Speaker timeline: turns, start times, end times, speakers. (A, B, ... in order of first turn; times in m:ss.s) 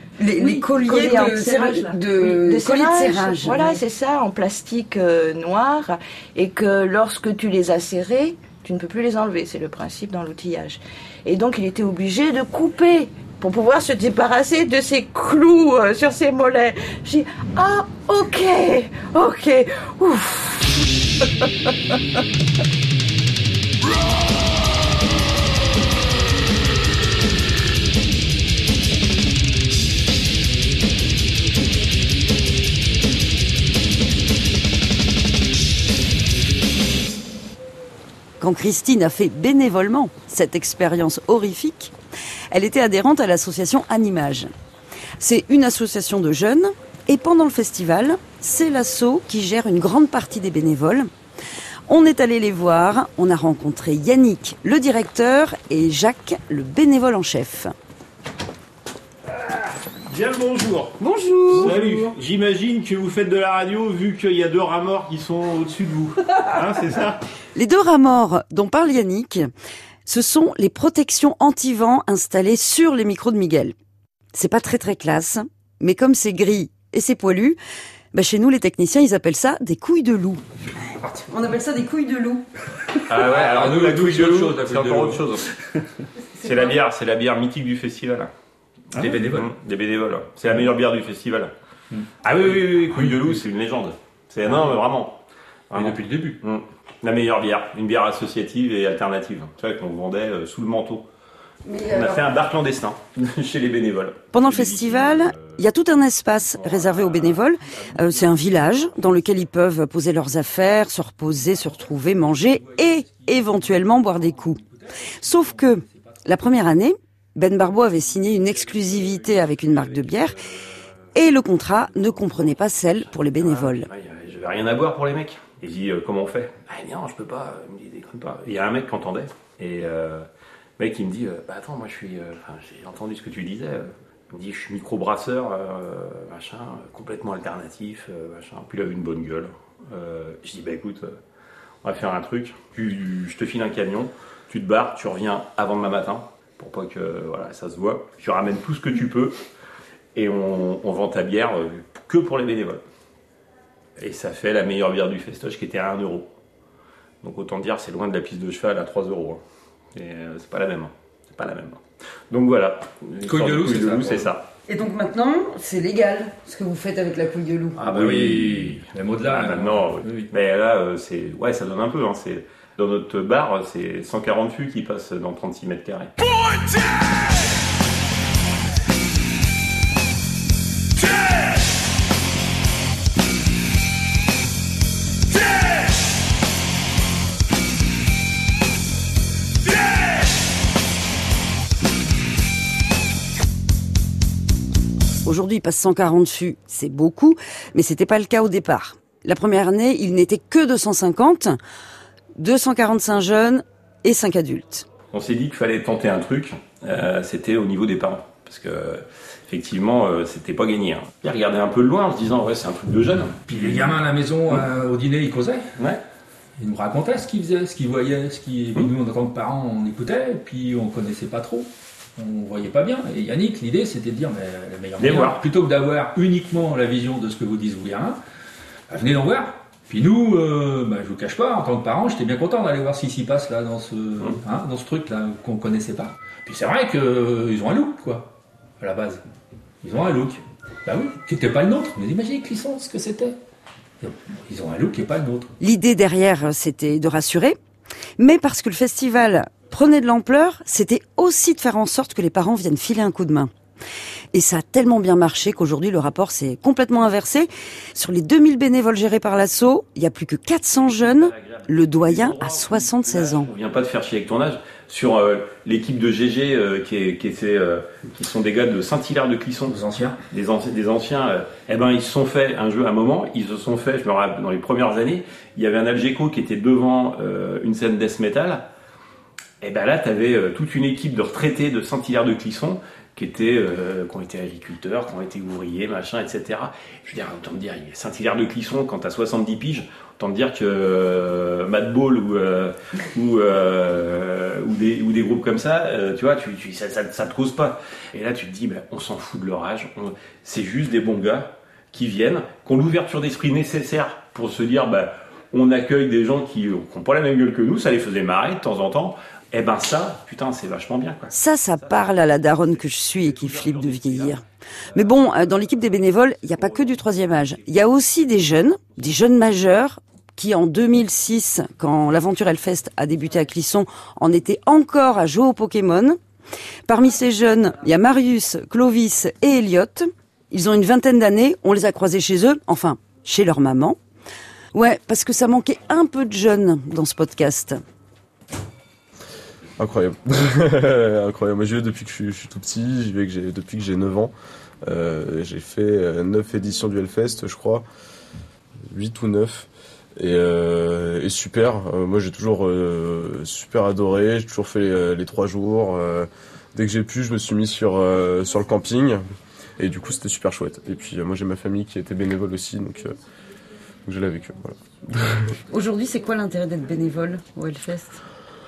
0:00.2-0:03.8 A
0:00.4-0:21.3 B
0:38.4-0:41.9 A
0:42.5-0:44.5 A
0:45.2-0:51.1 A
0:51.9-0:57.7 A
0:59.4-1:01.0 C
1:01.0-1:01.8 A
1:01.5-1:07.2 C
1:07.6-1:09.5 A
1:10.1-1:13.7 A
1:14.3-1:17.6 A
1:18.1-1:20.4 A
1:21.1-1:22.4 A
1:23.1-1:25.5 C
1:23.2-1:25.3 D
1:26.4-1:28.3 C
1:28.9-1:29.5 D
1:28.9-1:31.5 C
1:31.9-1:33.2 D
1:32.2-1:35.2 C
1:35.7-1:41.1 C
1:35.8-1:36.4 D
1:41.7-1:42.2 A
1:41.9-1:45.6 C
1:44.3-1:54.6 A
1:46.6-1:47.4 C
1:51.7-1:56.5 D
1:55.2-2:00.4 A
1:58.7-2:10.2 C
2:01.1-2:03.9 A
2:10.8-2:21.1 C
2:21.8-2:29.4 C
2:30.1-2:32.8 C
2:34.0-2:36.3 C
2:37.2-2:39.4 C
2:39.9-2:44.4 C
2:43.2-2:44.3 D
2:44.7-2:47.8 A
2:47.8-2:50.3 D
2:47.8-2:56.1 C
3:15.2-3:21.6 A
3:22.4-3:24.9 A
3:25.1-3:34.0 C
3:33.5-3:35.7 D
3:36.6-3:48.2 D
3:45.0-3:45.4 C
3:48.9-3:59.2 D
3:59.8-4:03.4 D
4:04.0-4:05.5 D
4:05.6-4:07.6 A
4:08.2-4:13.5 A
4:14.3-4:23.5 A
4:20.9-4:29.8 C
4:29.7-4:30.2 D
4:30.3-4:38.7 C
4:39.6-5:14.4 C
5:11.3-5:14.4 A
5:14.9-5:26.2 A
5:26.9-5:34.0 A
5:34.7-5:37.8 A
5:39.8-5:44.3 E
5:44.8-5:47.8 E
5:48.9-5:59.2 E
5:59.8-6:03.2 E
6:04.0-6:05.5 E
6:05.7-6:08.2 A